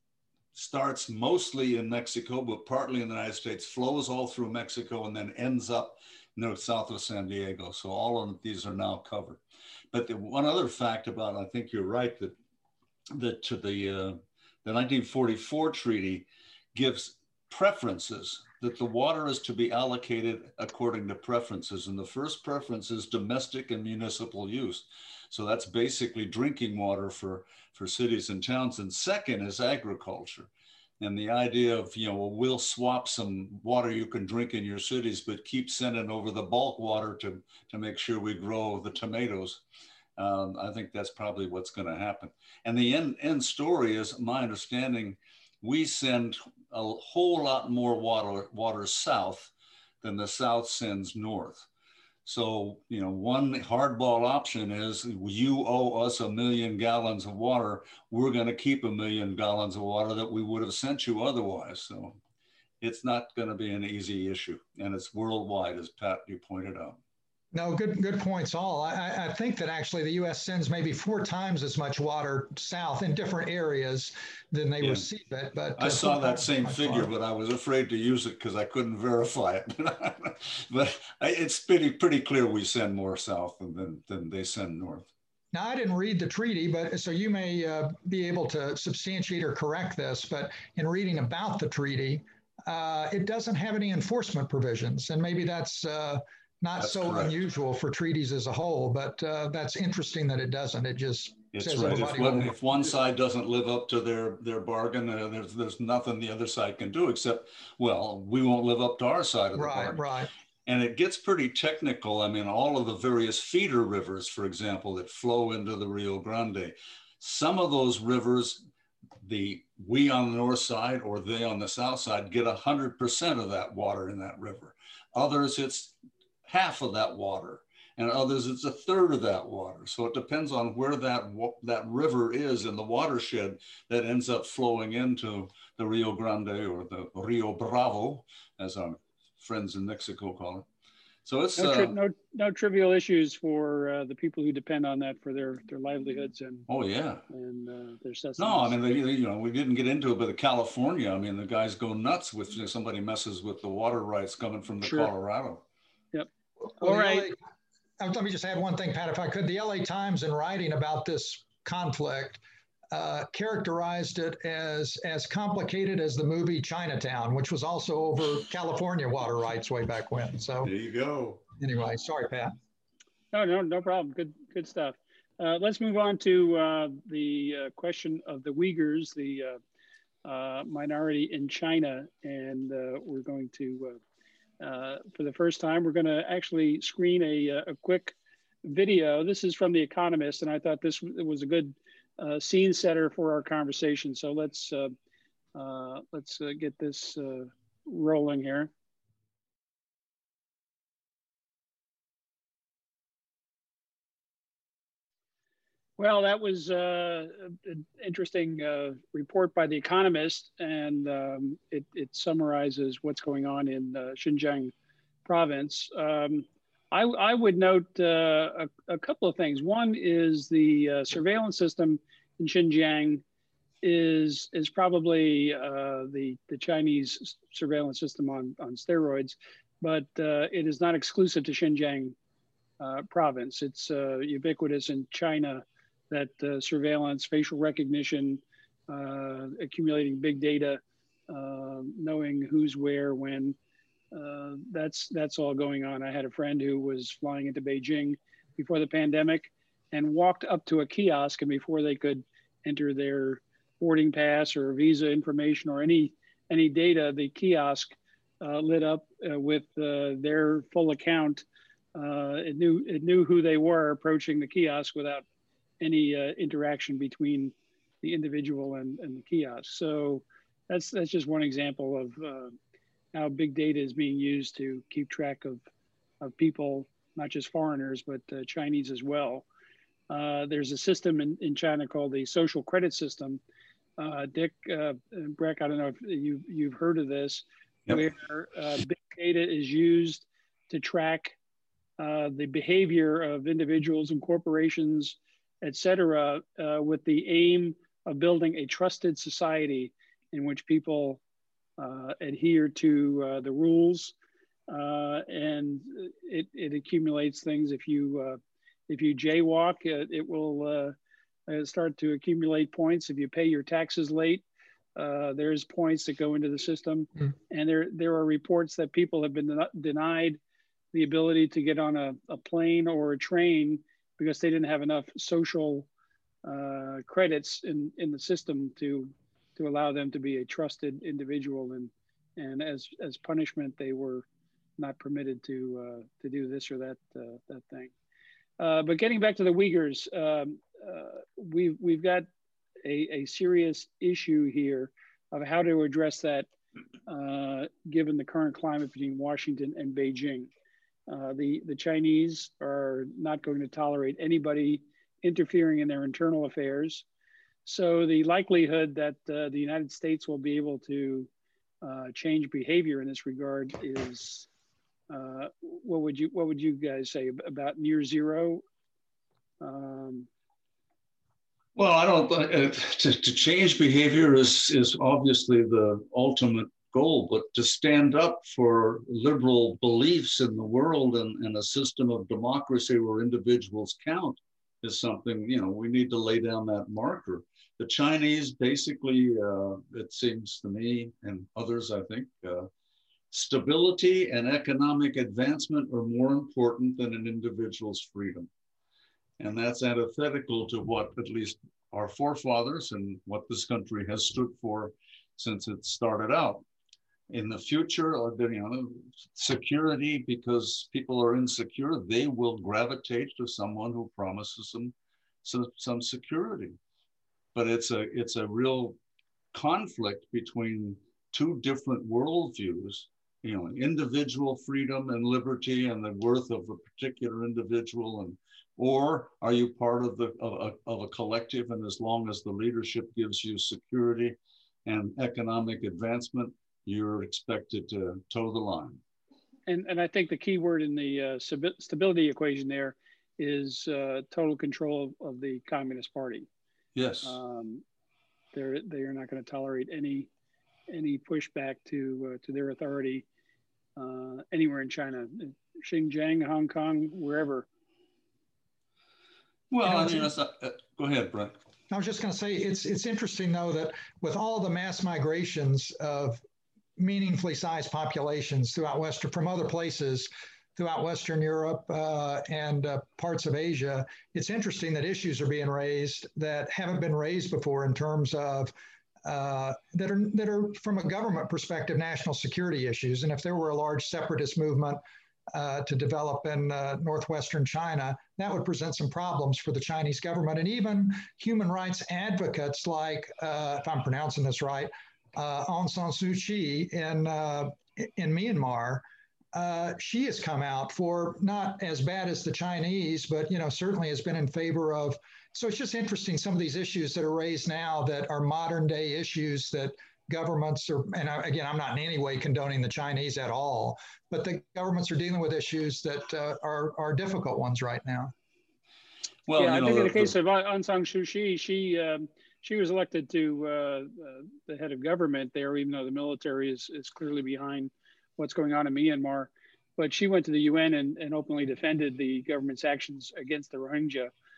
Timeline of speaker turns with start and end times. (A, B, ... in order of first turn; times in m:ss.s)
0:00.5-0:09.4 A
0:09.9-0:12.4 A
0:13.1-0:39.6 A
0:40.2-0:51.7 A
0:52.2-1:02.2 A
1:02.8-1:07.0 A
1:07.5-1:17.1 B
1:14.8-1:15.1 A
1:15.8-1:25.1 A
1:25.5-1:42.5 B
1:36.8-1:37.4 A
1:41.5-1:50.0 A
1:49.6-1:50.3 B
1:50.7-1:58.6 A
1:59.2-2:20.6 A
2:21.2-2:22.0 A
2:21.6-2:26.7 C
2:26.7-2:27.2 A
2:27.3-2:28.8 C
2:28.4-2:35.6 A
2:34.8-2:35.1 C
2:36.1-2:37.3 C
2:36.8-2:37.4 B
2:38.0-2:50.7 B
2:50.6-2:51.4 A
2:51.6-2:52.5 B
2:53.3-2:59.6 C
3:00.2-3:04.0 C
3:04.6-3:14.9 C
3:15.6-3:18.7 C
3:26.0-3:34.7 C
3:35.2-3:43.2 C
3:43.8-3:52.2 C
3:52.8-4:03.6 C
4:04.1-4:21.4 C
4:22.0-4:25.2 C
4:25.8-4:32.6 C
4:33.1-4:35.6 C
4:36.2-4:39.5 C
4:40.1-4:43.4 C
4:44.0-4:51.4 C
4:52.0-5:01.2 C
5:01.8-5:04.2 C
5:04.7-5:11.0 C
5:11.5-5:14.4 C
5:15.0-5:20.4 C
5:20.9-5:25.9 C
5:26.4-5:34.3 C
5:34.8-5:37.9 C
5:38.6-5:42.3 C
5:42.8-5:46.5 C
5:47.1-5:50.5 C
5:51.1-5:57.0 C
5:57.6-6:01.3 C
6:01.8-6:04.5 C
6:05.1-6:08.6 C
6:09.6-6:10.3 C
6:11.8-6:32.7 A
6:33.3-6:38.5 A
6:39.4-6:46.6 A
6:47.3-6:56.8 A
6:57.6-6:59.0 A
6:59.5-7:19.0 A
7:19.7-7:26.5 C
7:27.0-7:27.4 A
7:27.2-7:27.8 C
7:28.5-7:30.3 C
7:30.9-7:33.3 C
7:34.0-7:37.7 C
7:39.7-7:41.6 A
7:39.8-7:40.3 B
7:41.9-7:46.4 B
7:47.0-7:58.7 B
7:59.2-8:38.3 B
8:39.5-8:40.4 A
8:39.6-8:54.3 C